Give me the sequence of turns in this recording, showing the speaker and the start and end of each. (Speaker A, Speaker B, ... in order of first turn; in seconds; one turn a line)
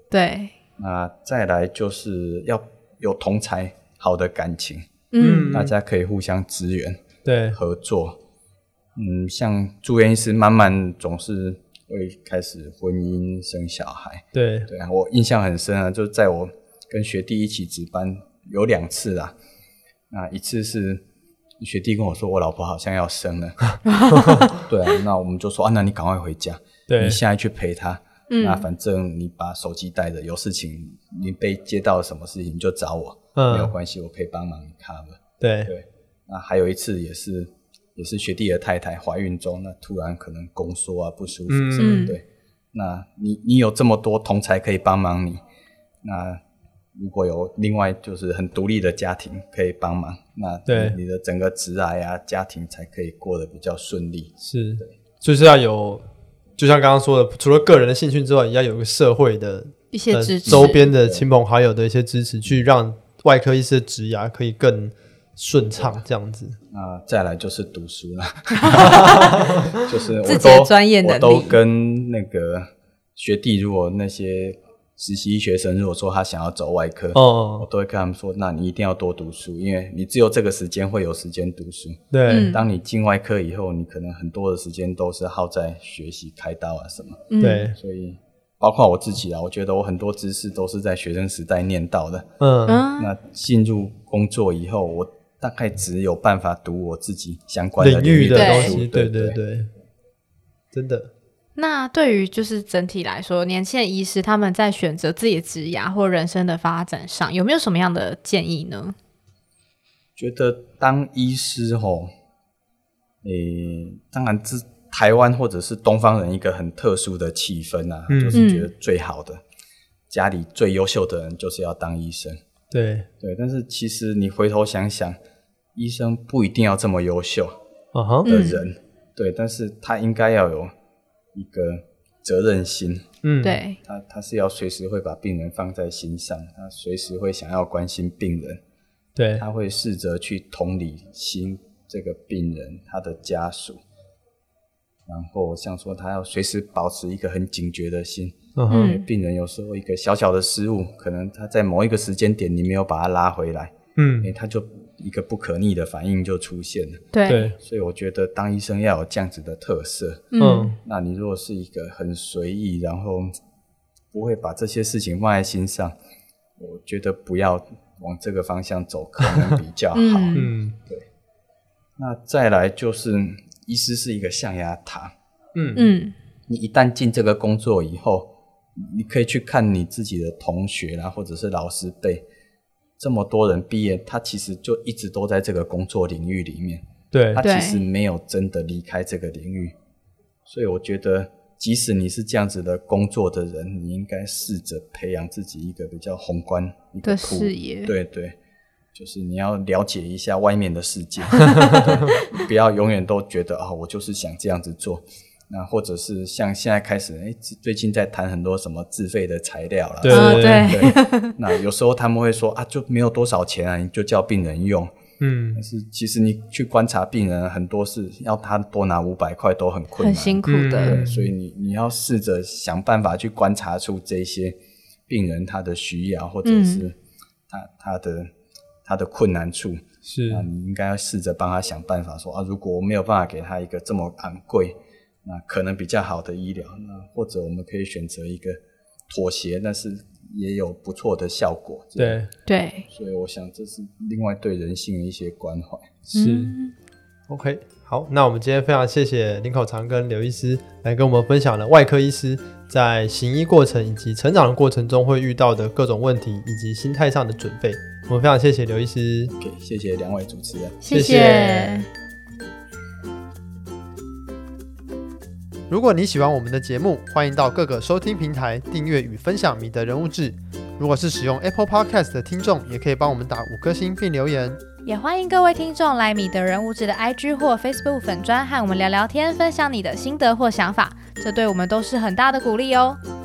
Speaker A: 0.1-0.5
Speaker B: 0.8-4.9
Speaker A: 5.1-5.5
Speaker C: 5.2-5.7
Speaker B: 5.5-8.2
Speaker C: 7.2-7.6
Speaker B: 9.0-19.4
Speaker C: 14.3-14.7
Speaker B: 20.1-21.0
Speaker B: 21.6-23.8
Speaker A: 23.9-24.5
Speaker B: 24.5-45.4
Speaker C: 26.9-27.2
Speaker A: 28.3-28.6
Speaker C: 33.4-33.7
Speaker C: 35.4-35.7
Speaker C: 41.5-42.1
Speaker A: 41.8-42.2
Speaker B: 46.0-46.4
Speaker B: 47.0-54.3
Speaker C: 50.7-51.0
Speaker C: 54.4-56.0
Speaker C: 56.6-66.6
Speaker A: 59.9-60.8
Speaker B: 60.5-61.2
Speaker B: 66.7-92.3
Speaker A: 68.5-69.6
Speaker C: 68.9-69.7
Speaker A: 70.2-71.6
Speaker C: 77.1-77.7
Speaker C: 82.1-82.5
Speaker A: 82.3-82.6
Speaker A: 87.3-87.7
Speaker C: 87.4-87.8
Speaker C: 92.4-92.9
Speaker A: 92.7-93.1
Speaker B: 93.0-99.4
Speaker C: 97.8-99.7
Speaker A: 98.3-98.8
Speaker C: 100.7-101.1
Speaker A: 101.6-109.0
Speaker B: 110.2-112.1
Speaker B: 113.2-119.4
Speaker C: 118.1-118.4
Speaker A: 118.3-118.7
Speaker B: 120.1-122.4
Speaker C: 122.7-123.1
Speaker B: 123.2-125.2
Speaker B: 125.8-127.6
Speaker C: 128.0-128.3
Speaker A: 128.2-128.6
Speaker B: 128.3-130.7
Speaker B: 131.3-133.1
Speaker C: 133.2-133.6
Speaker A: 133.4-133.8
Speaker B: 133.8-138.6
Speaker C: 139.2-139.4
Speaker B: 139.4-143.8
Speaker B: 145.1-163.3
Speaker C: 148.6-149.0
Speaker A: 148.7-149.0
Speaker C: 154.0-154.3
Speaker A: 157.1-157.5
Speaker C: 157.3-157.6
Speaker A: 160.3-160.7
Speaker C: 160.4-160.8
Speaker B: 164.1-165.9
Speaker B: 166.6-171.1
Speaker A: 169.9-170.5
Speaker C: 170.3-170.8
Speaker B: 172.0-175.1
Speaker C: 175.6-175.9
Speaker A: 175.8-176.2
Speaker B: 176.5-182.2
Speaker B: 183.0-189.8
Speaker C: 187.1-187.4
Speaker A: 187.4-187.8
Speaker B: 190.5-198.4
Speaker A: 197.0-197.9
Speaker B: 198.9-214.9
Speaker C: 201.6-201.9
Speaker A: 202.1-202.4
Speaker C: 210.0-210.9
Speaker A: 210.1-211.4
Speaker C: 215.2-215.6
Speaker B: 215.6-224.6
Speaker A: 220.0-221.0
Speaker C: 220.4-221.3
Speaker B: 225.1-226.9
Speaker A: 226.4-226.9
Speaker B: 227.5-228.3
Speaker B: 228.8-238.6
Speaker C: 230.1-230.5
Speaker B: 239.1-242.2
Speaker C: 242.0-242.3
Speaker A: 242.5-242.9
Speaker B: 242.9-246.1
Speaker C: 246.1-246.6
Speaker A: 246.1-246.7
Speaker C: 247.3-259.3
Speaker B: 259.4-260.9
Speaker A: 260.8-261.9
Speaker C: 260.9-261.8
Speaker C: 265.7-274.6
Speaker A: 274.9-283.0